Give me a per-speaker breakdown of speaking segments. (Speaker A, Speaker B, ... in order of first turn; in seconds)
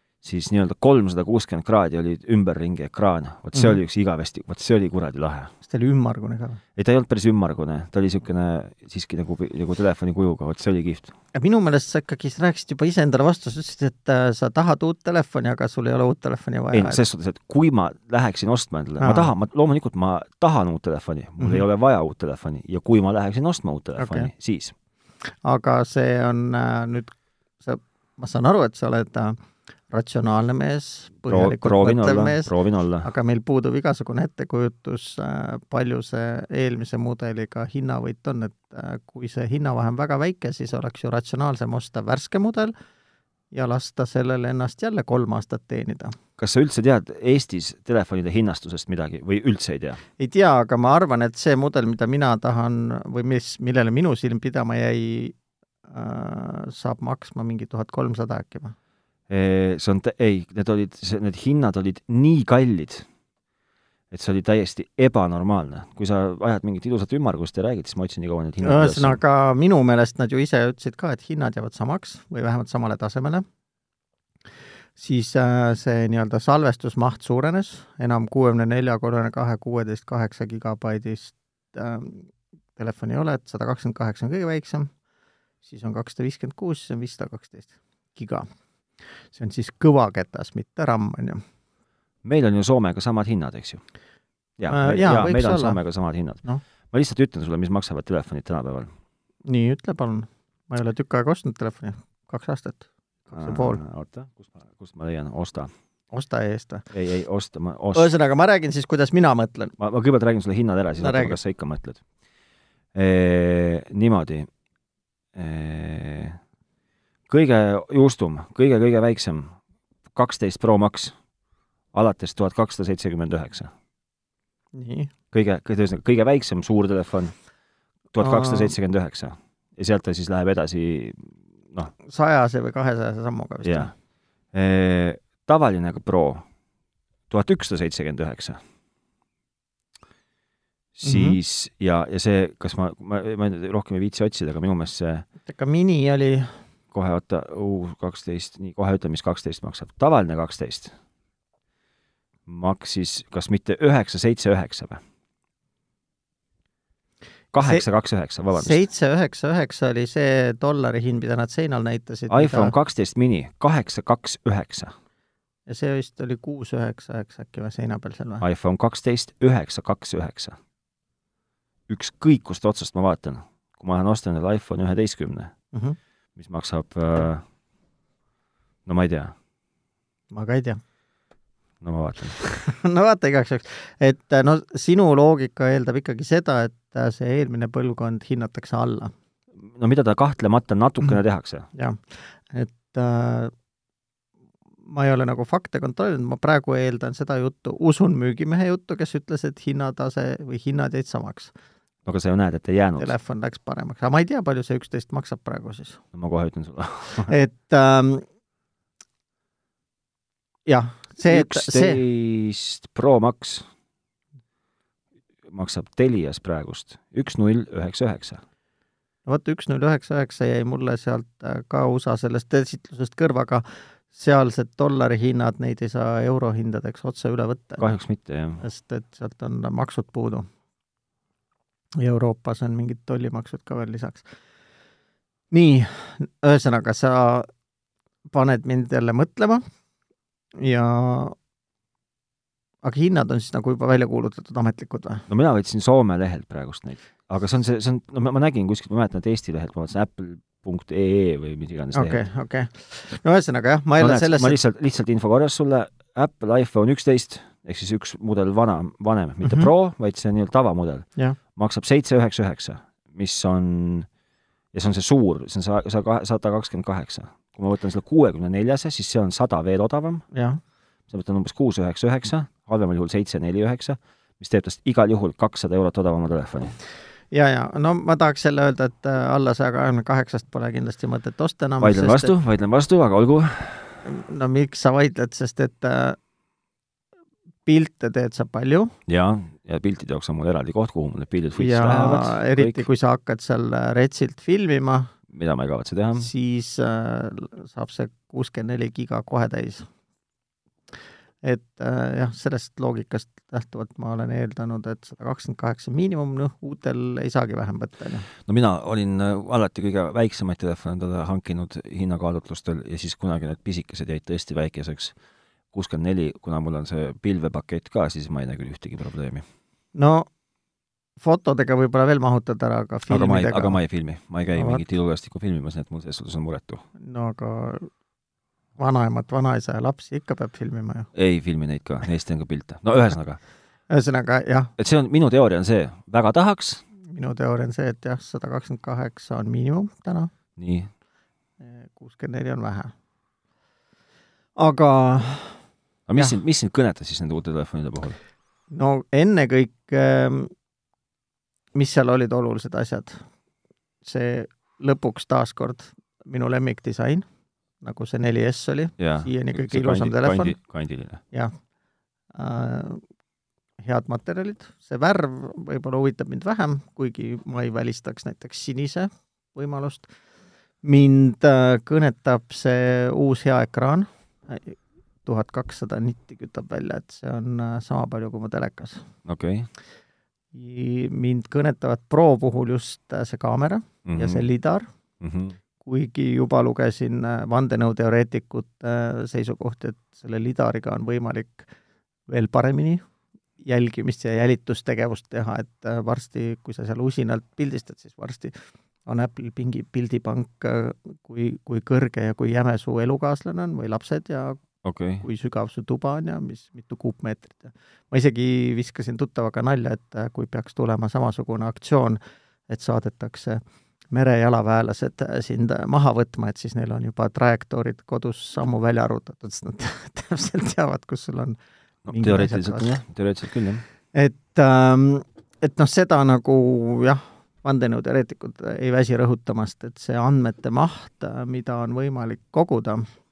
Speaker A: 0.2-5.5, 6.8-11.2, 16.7-24.8, 31.3-33.1, 46.4-50.0, 59.3-63.1, 64.1-69.2, 92.2-93.8, 94.6-98.9, 103.3-105.7, 106.9-108.1, 109.8-112.0, 113.0-114.5, 115.3-116.4, 117.3-119.5, 120.1-121.2, 121.9-123.7, 125.3-127.3, 128.1-131.9, 133.6-133.9, 134.5-136.4, 137.3-138.6, 141.0-145.3, 146.9-150.9, 152.5-155.0, 157.5-158.8, 162.3-164.9, 168.4-170.6, 171.9-175.5, 176.4-177.4, 178.9-179.3, 181.8-182.6, 189.6-191.7, 202.1-203.1, 206.1-207.3, 211.2-213.7, 215.5-218.4, 227.8-228.6, 245.3-252.2, 254.0-264.1, 264.7-270.2, 271.1-276.8, 281.8-284.0, 289.1-292.9, 295.3-296.3, 308.5-315.2, 315.7-319.4, 323.1-326.8, 331.1-333.4, 334.8-336.8, 340.6-340.9, 346.1-348.2, 359.0-361.2, 379.2-379.7, 384.1-384.5, 385.2-385.6, 404.8-405.3, 422.1-423.9
Speaker B: 5.6-6.6, 11.3-17.0, 19.0-19.3, 24.0-24.3, 25.4-29.4, 29.9-42.7, 43.5-46.2, 50.2-55.4, 55.9-58.8, 68.6-73.5, 75.0-84.9, 85.6-88.5, 89.0-91.4, 94.7-95.8, 99.5-103.8, 106.1-106.9, 107.9-109.7, 111.0-111.4, 124.7-125.1, 128.2-128.8, 132.0-133.9, 141.0-141.4, 145.5-146.6, 157.6-157.8, 158.5-162.8, 165.7-168.4, 180.3-180.8, 182.4-189.1, 191.7-193.5, 194.9-201.5, 203.0-206.0, 207.2-208.2, 210.7-212.0, 219.3-227.9, 228.6-230.5, 232.0-234.3, 235.5-237.5, 238.3-239.6, 240.6-241.3, 242.8-245.3, 251.9-254.6, 259.4-259.7, 270.3-270.6, 277.3-282.3, 284.1-286.2, 287.7-288.9, 291.6-295.1, 296.2-299.9, 301.4-308.3, 319.9-320.3, 321.2-323.8, 324.6-324.8, 327.0-327.9, 328.8-331.1, 333.9-334.7, 337.1-340.3, 341.6-342.9, 344.6-345.6, 348.7-350.5, 351.8-353.2, 354.0-357.2, 357.8-360.6, 362.3-363.0, 363.8-370.1, 370.8-379.1, 380.5-384.9, 385.8-391.7, 392.3-393.0, 393.6-398.5, 399.1-404.6, 405.2-413.6, 414.1-421.6, 422.1-423.0, 424.1-433.1